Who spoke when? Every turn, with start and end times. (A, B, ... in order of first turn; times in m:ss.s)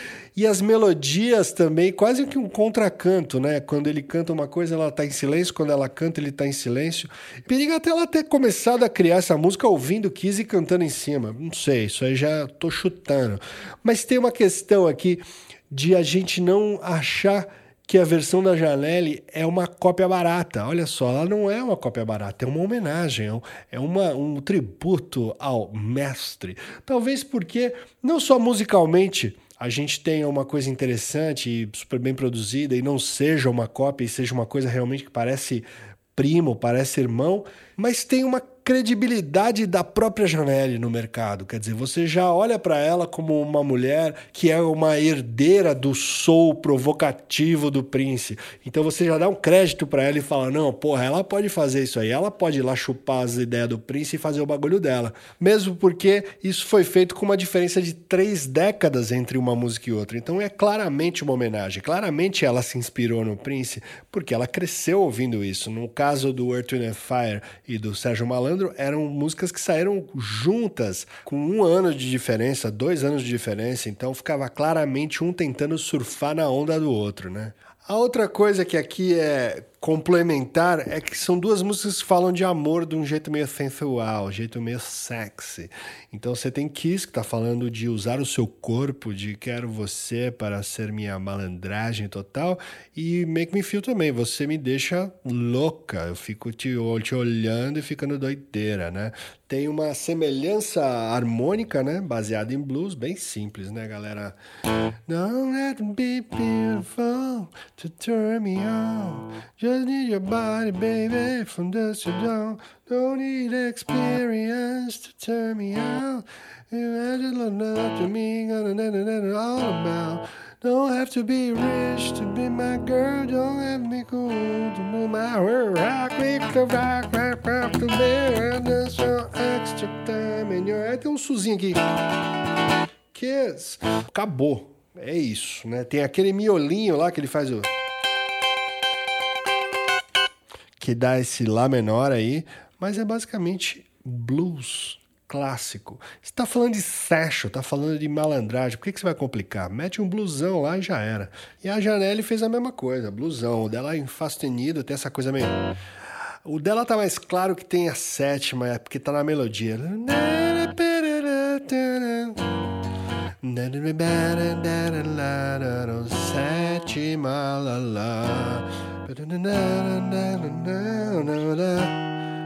0:00.4-1:44.4 A
1:45.1-2:11.8 A
2:13.1-2:17.7 A
2:20.8-2:35.6 A
2:36.4-2:42.5 A
2:43.4-2:52.0 A